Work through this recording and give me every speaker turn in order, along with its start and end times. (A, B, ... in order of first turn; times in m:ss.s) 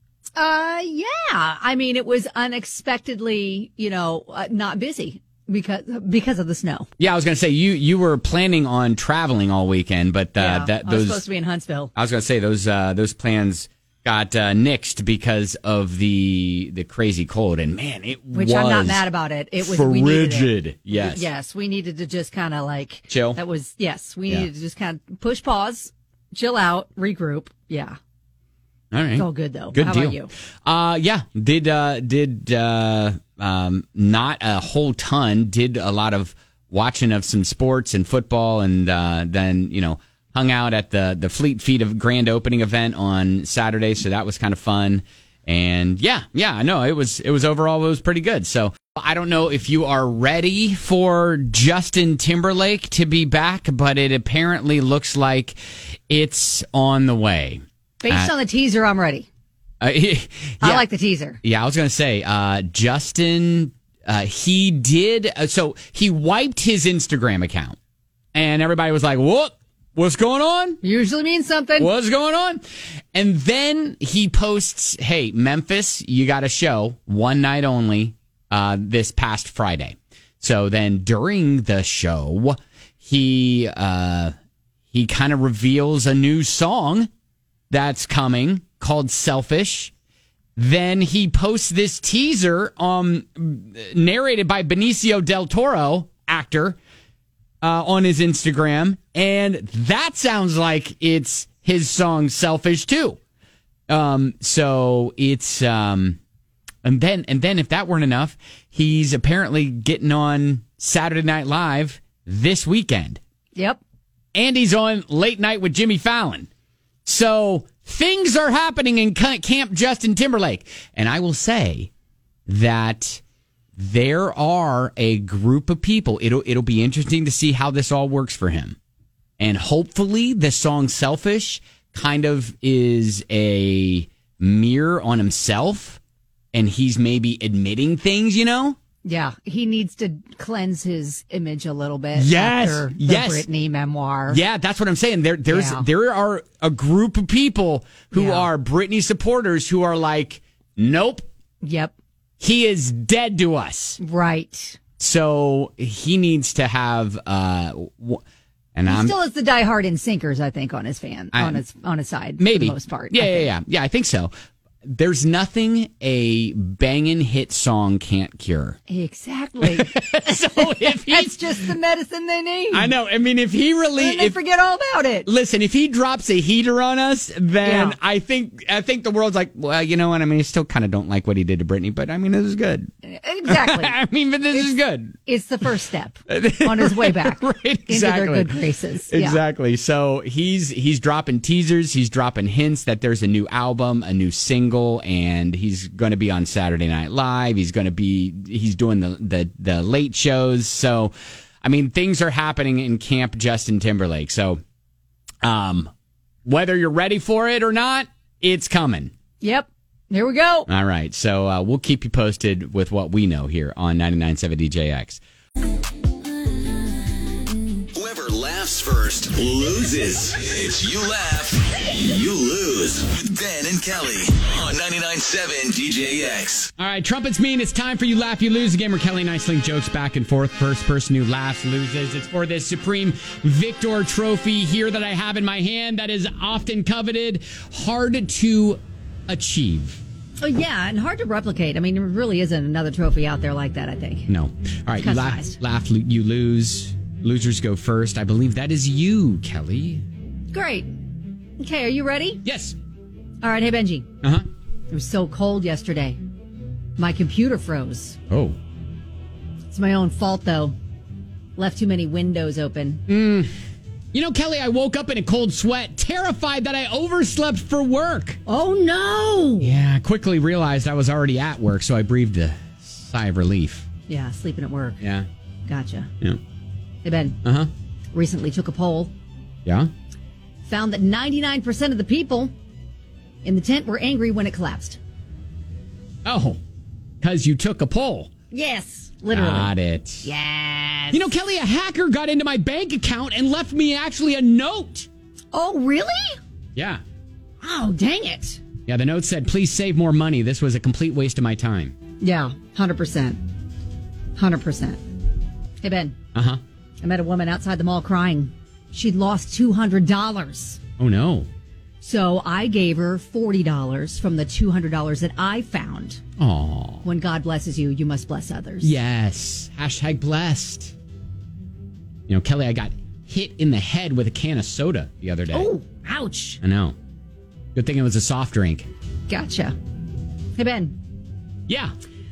0:00.4-0:06.9 A
0:07.0-0:11.2 B
0:10.4-0:11.9 A
0:12.0-0:19.1 B
0:18.3-0:28.0 A
0:19.6-0:21.3 B
0:23.1-0:23.4 B
0:28.9-0:55.6 B
0:29.2-0:30.3 A
0:56.1-0:58.3 B
0:58.0-0:59.3 A
0:59.8-1:00.9 B
1:00.6-1:01.4 A
1:01.4-1:07.8 B
1:08.3-1:10.8 B
1:10.8-1:11.9 A
1:11.8-1:12.6 B
1:13.1-1:24.3 B
1:24.9-1:27.1 B
1:27.7-1:29.9 B
1:30.6-1:36.8 B
1:37.6-1:43.2 B
1:43.9-1:46.2 B
1:46.8-1:53.2 B
1:53.6-1:53.8 A
1:54.3-1:56.5 B
1:57.0-2:01.9 B
2:02.5-2:03.2 B
2:03.8-2:08.8 B
2:09.4-2:16.0 B
2:16.5-2:18.8 B
2:19.0-2:24.4 A
2:22.2-2:23.5 B
2:24.3-2:31.3 B
2:25.5-2:25.9 A
2:28.1-2:28.5 A
2:31.6-2:31.9 A
2:32.4-2:34.0 B
2:34.0-2:34.8 A
2:35.0-2:38.2 B
2:38.8-2:39.2 B
2:38.9-2:43.5 A
2:41.3-2:41.6 B
2:42.4-2:44.3 B
2:44.8-2:48.8 B
2:48.9-2:52.9 A
2:49.6-2:51.6 B
2:52.7-2:54.4 B
2:54.0-2:55.3 A
2:55.3-3:02.9 B
2:57.6-2:58.0 A
3:03.0-3:04.0 A
3:03.4-3:05.2 B
3:04.5-3:09.4 A
3:06.3-3:24.6 B
3:25.4-3:25.9 B
3:26.4-3:29.1 B
3:29.4-3:30.7 A
3:30.7-3:35.2 B
3:38.0-3:46.7 C
3:46.8-4:00.0 B
4:00.4-4:04.3 A
4:04.3-4:10.0 B
4:05.0-4:05.6 A
4:10.5-4:10.9 A
4:11.6-4:12.4 A
4:12.4-4:12.8 B
4:13.4-4:14.1 A
4:14.9-4:16.2 A
4:17.0-4:18.2 A
4:18.3-4:18.6 B
4:19.7-4:20.8 A
4:21.6-4:23.0 A
4:23.1-4:23.5 B
4:24.1-4:28.4 B
4:28.5-4:29.8 A
4:29.6-4:33.9 B
4:34.1-4:35.0 A
4:35.0-4:35.3 B
4:35.7-4:36.1 A
4:37.0-4:37.4 A
4:37.4-4:37.7 B
4:38.1-4:39.1 A
4:39.6-4:39.9 B
4:40.7-4:42.5 A
4:43.4-4:45.0 A
4:46.2-4:46.6 B
4:47.2-4:48.3 B
4:48.5-4:49.7 A
4:49.3-4:50.3 B
4:50.2-4:51.3 A
4:51.1-4:55.1 B
4:55.5-4:56.4 A
4:56.8-4:57.0 B
4:57.6-4:58.6 A
4:58.9-5:02.0 B
5:02.2-5:03.4 A
5:04.4-5:05.0 A
5:05.8-5:06.2 A
5:06.3-5:06.6 B
5:07.0-5:10.8 A
5:11.0-5:11.5 B
5:12.0-5:16.2 A
5:16.4-5:17.0 B
5:17.0-5:19.0 A
5:18.8-5:20.9 B
5:22.3-5:25.7 B
5:25.5-5:26.6 A
5:26.6-5:27.0 B
5:27.8-5:28.9 B
5:29.3-5:29.8 A
5:30.6-5:31.0 A